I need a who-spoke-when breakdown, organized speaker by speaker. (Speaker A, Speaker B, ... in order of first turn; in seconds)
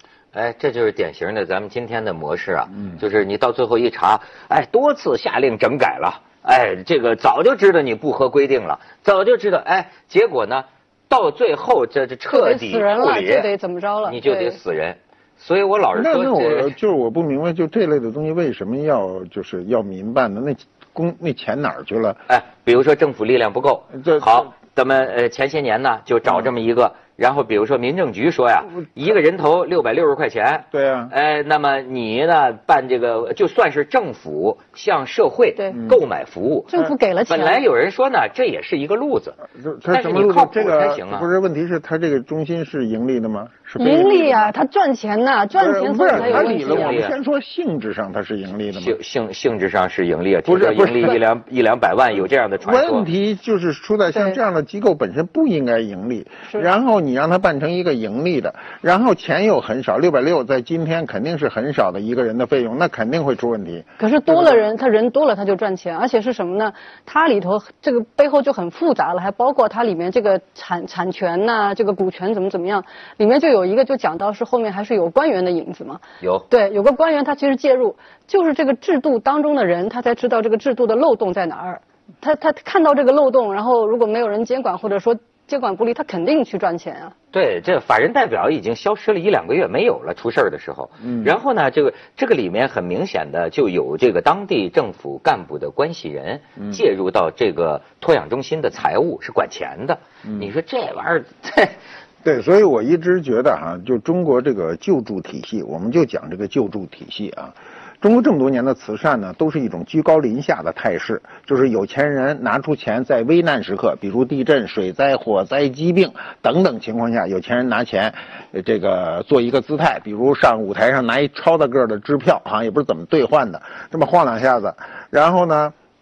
Speaker A: 0.3-13.5, 14.0-16.7, 22.3-36.7, 37.3-41.3, 46.1-47.1, 48.7-53.1, 76.2-76.5, 87.3-101.8
Speaker B: 12.3-14.6, 36.7-37.6, 43.8-47.0, 64.0-87.1
Speaker C: 15.9-22.2, 23.9-24.3, 30.7-31.1, 39.6-44.5, 45.6-48.9, 50.5-51.2, 52.6-64.6, 91.0-91.3, 102.2-125.7